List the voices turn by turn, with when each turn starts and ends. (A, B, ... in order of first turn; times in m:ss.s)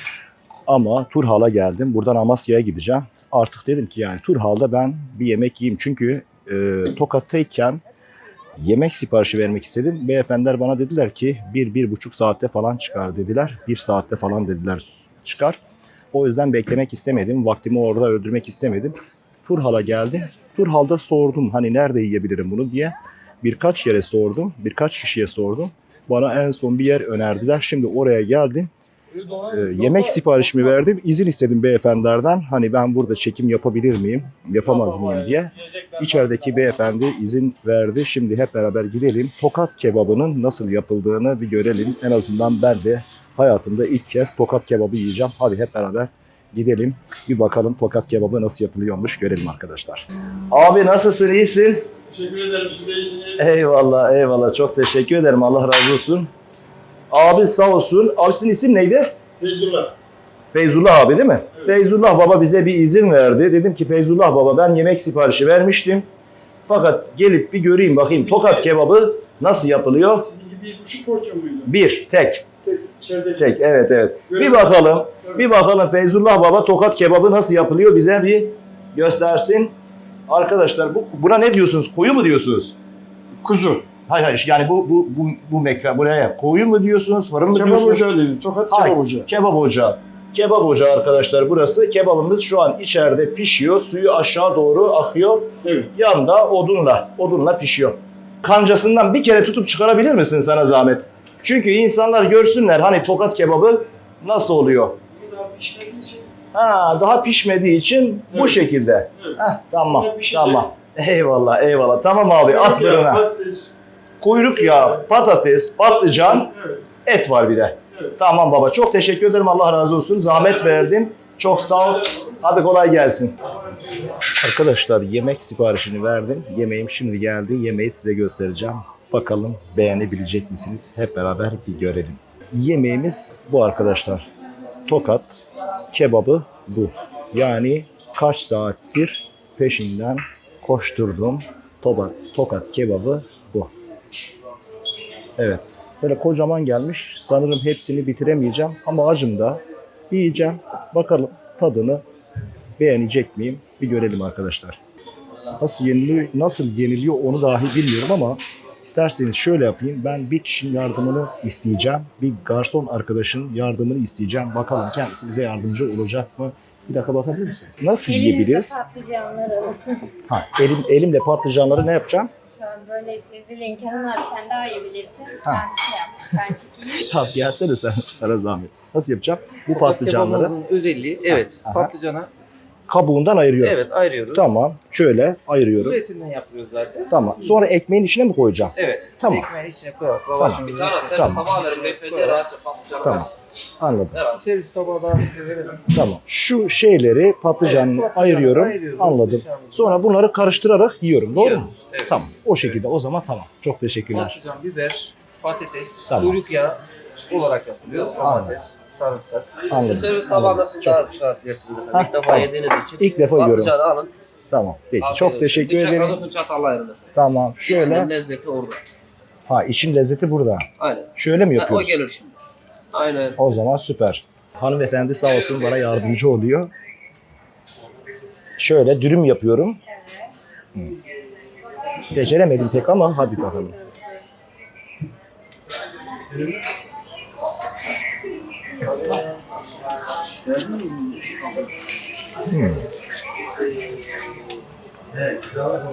0:00.7-0:07.8 A
0:08.6-0:15.6 A
0:16.1-0:28.7 A
0:29.3-0:51.8 A
0:52.1-0:53.4 B
0:53.3-0:56.3 A
0:57.1-0:59.1 A
0:59.4-0:59.9 B
1:00.5-1:06.0 A
1:06.6-1:10.3 A
1:10.3-1:11.7 B
1:11.6-1:12.5 A
1:12.8-1:13.4 B
1:13.3-1:19.7 A
1:20.3-1:22.7 A
1:23.4-1:23.8 B
1:24.0-1:28.1 A
1:27.6-1:29.2 B
1:28.7-1:45.0 A
1:45.2-1:46.3 B
1:46.5-1:53.3 A
1:50.0-1:50.5 B
1:52.6-1:53.7 B
1:54.2-2:03.4 A
2:04.2-2:14.3 A
2:14.8-2:15.4 A
2:15.9-2:23.7 A
2:25.4-2:32.0 A
2:32.8-2:34.8 A
2:35.6-2:48.8 A
2:48.1-2:50.1 C
2:50.2-2:52.3 A
2:52.5-2:57.0 C
2:56.9-3:00.5 A
2:59.7-3:02.3 D
3:01.6-3:01.9 A
3:02.9-3:06.0 A
3:03.6-3:04.4 D
3:05.8-3:07.1 D
3:07.1-3:09.5 A
3:08.8-3:12.4 D
3:10.4-3:11.5 A
3:10.6-3:13.3 E
3:13.0-3:14.2 A
3:14.1-3:14.4 E
3:14.2-3:15.9 D
3:15.9-3:24.4 A
3:17.6-3:20.0 D
3:21.4-3:22.1 D
3:24.1-3:29.7 D
3:26.1-3:26.4 A
3:28.2-3:28.6 A
3:29.7-3:31.0 A
3:29.8-3:34.1 E
3:31.9-3:33.8 A
3:34.5-3:36.3 A
3:35.0-3:37.0 E
3:37.1-3:38.1 A
3:37.6-3:38.8 E
3:39.5-3:42.0 A
3:40.8-3:42.3 E
3:42.9-3:43.4 E
3:43.4-3:46.7 A
3:48.6-3:49.8 A
3:52.1-3:53.8 A
4:00.6-4:01.3 D
4:02.4-4:02.8 A